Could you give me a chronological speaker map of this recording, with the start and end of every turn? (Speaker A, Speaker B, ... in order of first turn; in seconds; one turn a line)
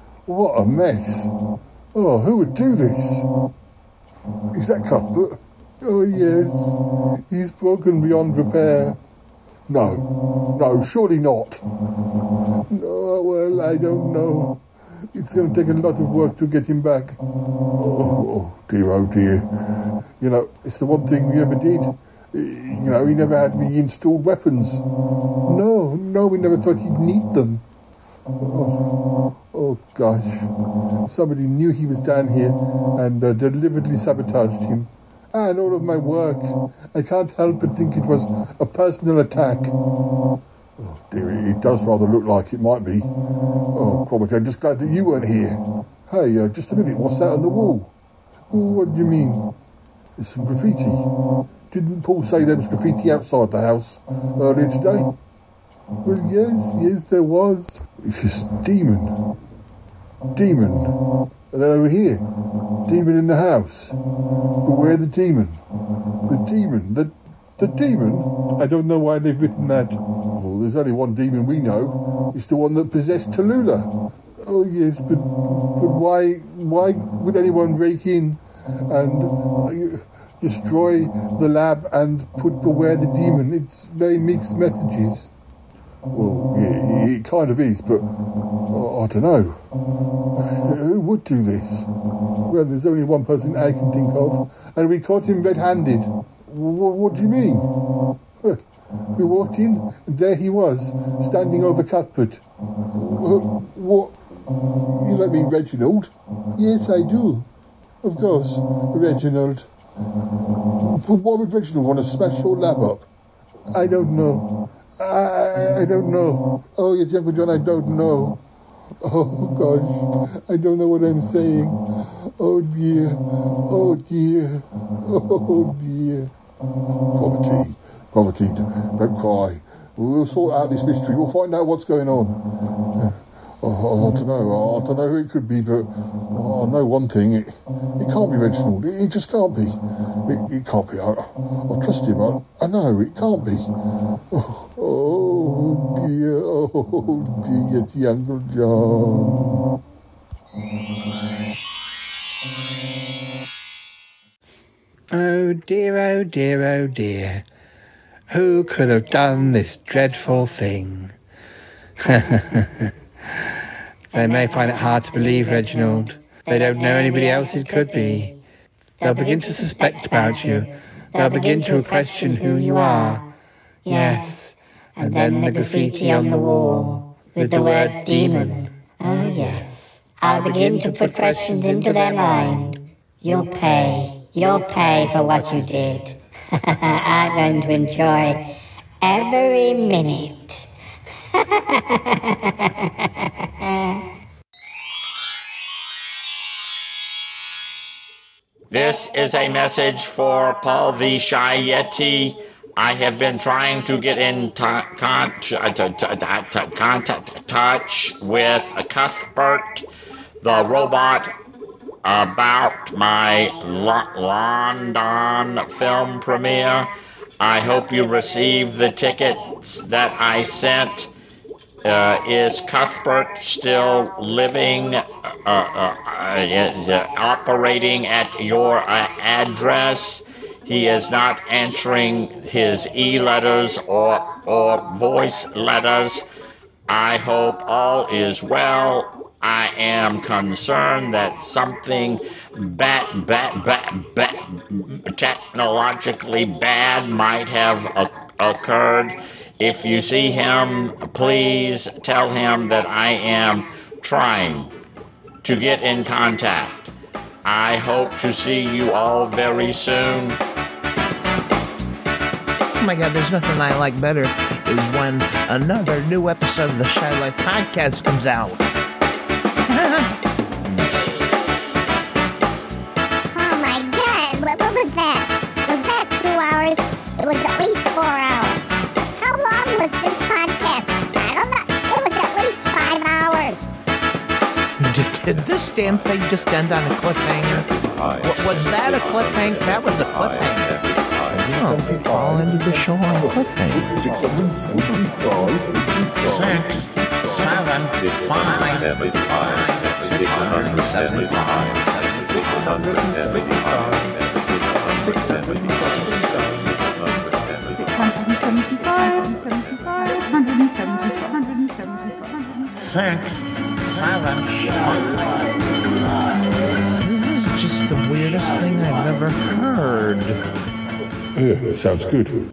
Speaker A: 0.3-1.3
Speaker A: 1.9-3.3
Speaker A: 4.5-6.8
Speaker A: 7.3-9.0
Speaker A: 9.7-11.6
Speaker A: 12.7-14.6
Speaker A: 15.1-17.2
Speaker A: 17.8-19.5
Speaker A: 20.2-24.8
Speaker A: 25.5-27.6
Speaker A: 28.4-28.8
Speaker A: 29.5-30.5
Speaker A: 31.1-39.7
Speaker A: 40.8-43.1
Speaker A: 43.7-47.9
Speaker A: 48.5-49.5
Speaker A: 50.2-51.1
Speaker A: 51.7-55.1
Speaker A: 56.0-59.2
Speaker A: 60.4-61.0
Speaker A: 61.5-62.2
Speaker A: 62.9-64.0
Speaker A: 64.6-65.6
Speaker A: 66.3-85.3
Speaker A: 86.1-88.1
Speaker A: 88.7-89.6
Speaker A: 90.4-91.9
Speaker A: 92.4-97.7
Speaker A: 99.2-102.4
Speaker A: 102.9-104.2
Speaker A: 104.8-107.5
Speaker A: 108.0-109.7
Speaker A: 110.8-113.1
Speaker A: 113.7-118.4
Speaker A: 119.0-121.8
Speaker A: 122.4-126.3
Speaker A: 127.1-132.4
Speaker A: 133.0-143.7
Speaker A: 144.3-149.6
Speaker B: 155.1-157.4
Speaker B: 158.3-161.1
Speaker B: 162.0-162.9
Speaker B: 164.1-168.4
Speaker C: 164.1-165.1
Speaker C: 166.3-168.2
Speaker C: 169.0-173.2
Speaker B: 169.0-173.2
Speaker B: 173.9-178.7
Speaker C: 173.9-174.3
Speaker C: 175.0-179.7
Speaker C: 180.2-186.1
Speaker B: 180.2-182.8
Speaker B: 183.4-186.1
Speaker C: 186.7-188.4
Speaker C: 189.0-190.5
Speaker D: 198.7-209.9
Speaker D: 210.4-211.3
Speaker D: 212.0-221.1
Speaker D: 221.8-236.3
Speaker D: 236.9-254.7
Speaker D: 255.4-256.9
Speaker D: 257.4-260.4
Speaker E: 262.8-268.6
Speaker E: 269.7-270.1
Speaker C: 273.3-283.8
Speaker E: 284.8-287.7
Speaker E: 288.2-290.7
Speaker E: 291.5-293.9
Speaker E: 296.3-296.7
Speaker E: 297.4-298.9
Speaker E: 301.2-301.7
Speaker E: 312.9-313.3
Speaker E: 313.9-314.5
Speaker E: 317.0-320.4
Speaker A: 321.4-322.4